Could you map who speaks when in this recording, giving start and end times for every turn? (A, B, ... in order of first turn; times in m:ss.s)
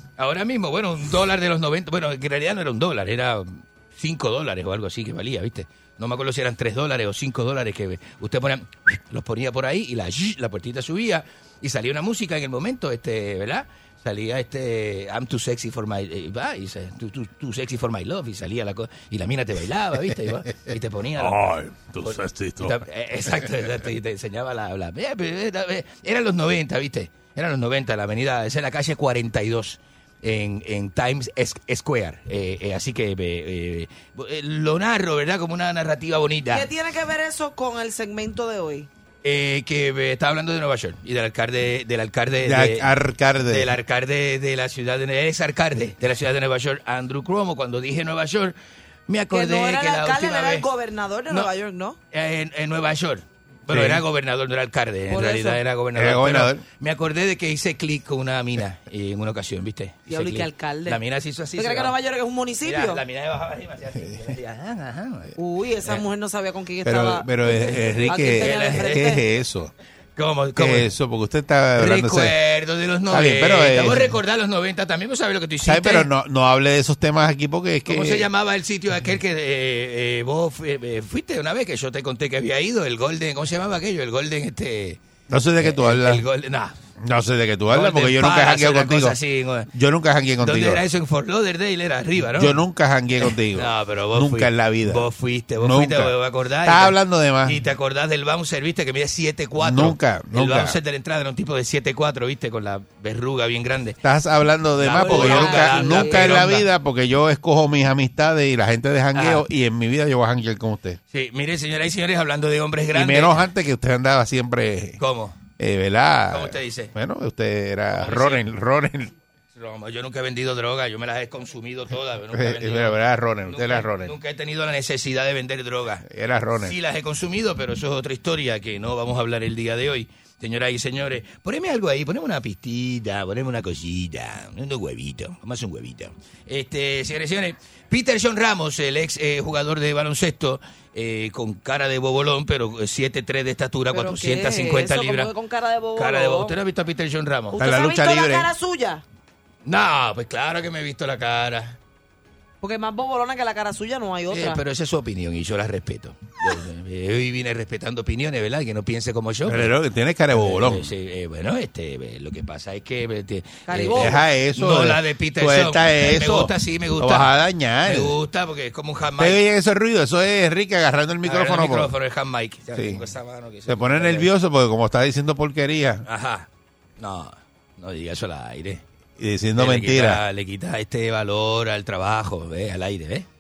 0:00.2-0:21.4 A
0:21.2-0:22.8 B
0:22.0-0:36.7 A
0:36.5-0:38.9 C
0:39.2-0:42.9 A
0:42.4-0:43.7 B
0:43.5-0:48.6 A
0:49.1-0:50.7 A
0:49.3-0:52.0 C
0:52.1-1:02.0 A
0:53.7-0:54.0 B
0:55.1-0:55.6 C
0:56.0-0:56.6 B
1:00.1-1:01.0 C
1:01.6-1:03.0 C
1:02.6-1:06.0 A
1:05.4-1:07.3 C
1:06.8-1:09.7 B
1:07.5-1:09.2 A
1:08.0-1:09.2 C
1:10.2-1:10.9 A
1:10.6-1:12.3 B
1:11.8-1:16.1 A
1:13.1-1:14.2 B
1:15.6-1:18.3 B
1:17.9-1:25.0 A
1:25.3-1:26.2 B
1:25.6-1:26.8 A
1:27.0-1:29.2 B
1:27.7-1:29.7 A
1:29.7-1:30.8 B
1:30.4-1:32.6 A
1:32.3-1:35.1 B
1:33.2-1:44.0 A
1:35.6-1:37.6 B
1:39.6-1:40.8 B
1:44.0-1:51.0 B
1:44.8-1:46.7 A
1:45.0-1:46.5 C
1:49.2-1:49.4 A
1:51.1-1:53.4 A
1:52.9-1:55.0 B
1:55.0-1:55.4 A
1:55.6-1:59.2 B
1:56.3-1:56.9 A
1:58.0-1:58.4 A
1:59.6-2:03.0 A
2:02.3-2:04.1 B
2:03.5-2:06.1 A
2:06.0-2:06.8 B
2:06.6-2:25.3 A
2:23.9-2:26.6 C
2:26.0-2:27.6 A
2:27.5-2:29.0 C
2:27.6-2:28.5 B
2:29.6-2:31.8 A
2:32.6-2:34.6 C
2:34.3-2:39.7 A
2:39.5-2:40.9 B
2:40.3-2:47.3 A
2:43.7-2:44.2 C
2:43.9-2:48.2 B
2:47.8-2:49.4 A
2:49.2-2:51.9 B
2:51.2-2:54.3 A
2:52.7-2:53.0 B
2:53.7-2:56.0 B
2:56.1-2:56.5 A
2:57.0-2:58.8 A
2:59.2-3:00.2 B
2:59.6-3:03.3 A